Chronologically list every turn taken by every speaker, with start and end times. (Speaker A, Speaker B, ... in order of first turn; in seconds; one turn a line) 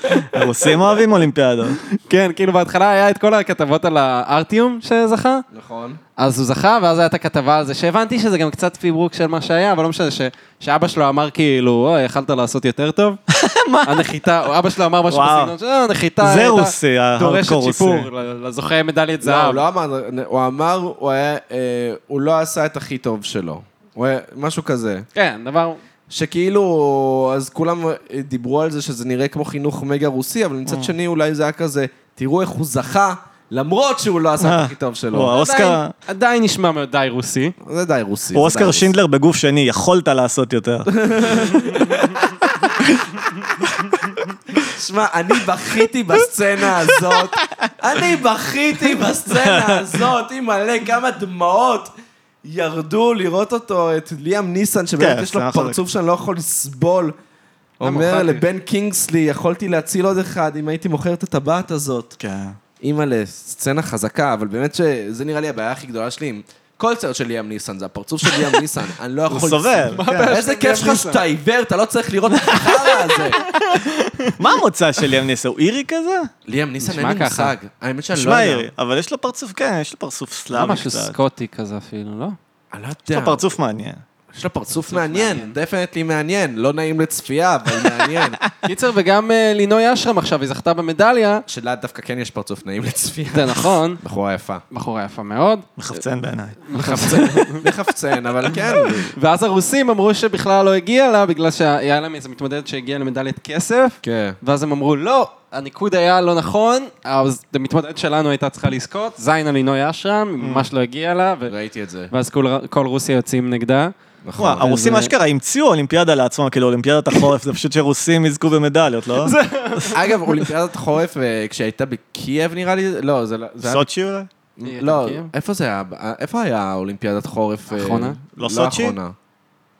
Speaker A: 0.1-1.8
Speaker B: 1.9-5.4
Speaker C: 5.5-6.0
Speaker B: 6.2-13.2
Speaker A: 13.3-14.1
Speaker B: 13.8-19.6
Speaker A: 15.1-15.5
Speaker A: 16.2-18.1
Speaker C: 19.2-25.1
Speaker B: 25.1-25.8
Speaker C: 26.1-35.3
Speaker A: 30.6-30.9
Speaker A: 34.4-35.9
Speaker B: 35.3-37.5
Speaker C: 37.6-38.9
Speaker A: 38.3-44.2
Speaker C: 40.9-42.1
Speaker C: 44.6-51.9
Speaker A: 46.9-47.6
Speaker A: 49.3-50.1
Speaker C: 52.4-57.1
Speaker A: 55.0-55.8
Speaker C: 57.8-62.1
Speaker B: 57.8-58.4
Speaker A: 62.2-62.6
Speaker C: 62.8-73.4
Speaker A: 69.3-70.3
Speaker B: 69.8-71.2
Speaker B: 73.4-74.4
Speaker A: 73.4-76.3
Speaker C: 76.5-78.7
Speaker B: 76.8-77.5
Speaker A: 78.1-81.1
Speaker B: 80.5-82.4
Speaker C: 82.7-83.5
Speaker A: 83.1-84.0
Speaker C: 84.3-88.4
Speaker B: 84.8-85.5
Speaker B: 88.6-91.4
Speaker C: 91.5-94.6
Speaker B: 93.3-94.0
Speaker B: 94.7-95.7
Speaker A: 95.8-97.4
Speaker B: 96.7-97.6
Speaker C: 96.7-99.1
Speaker B: 99.1-111.5
Speaker C: 104.0-104.4
Speaker A: 110.4-110.7
Speaker C: 111.5-112.1
Speaker B: 112.1-113.9
Speaker C: 114.2-114.7
Speaker A: 114.4-119.3
Speaker B: 114.6-115.1
Speaker B: 119.2-120.2
Speaker C: 119.9-123.8
Speaker A: 123.6-124.3
Speaker C: 124.5-129.1
Speaker B: 124.6-125.3
Speaker B: 127.7-128.2
Speaker A: 128.4-128.9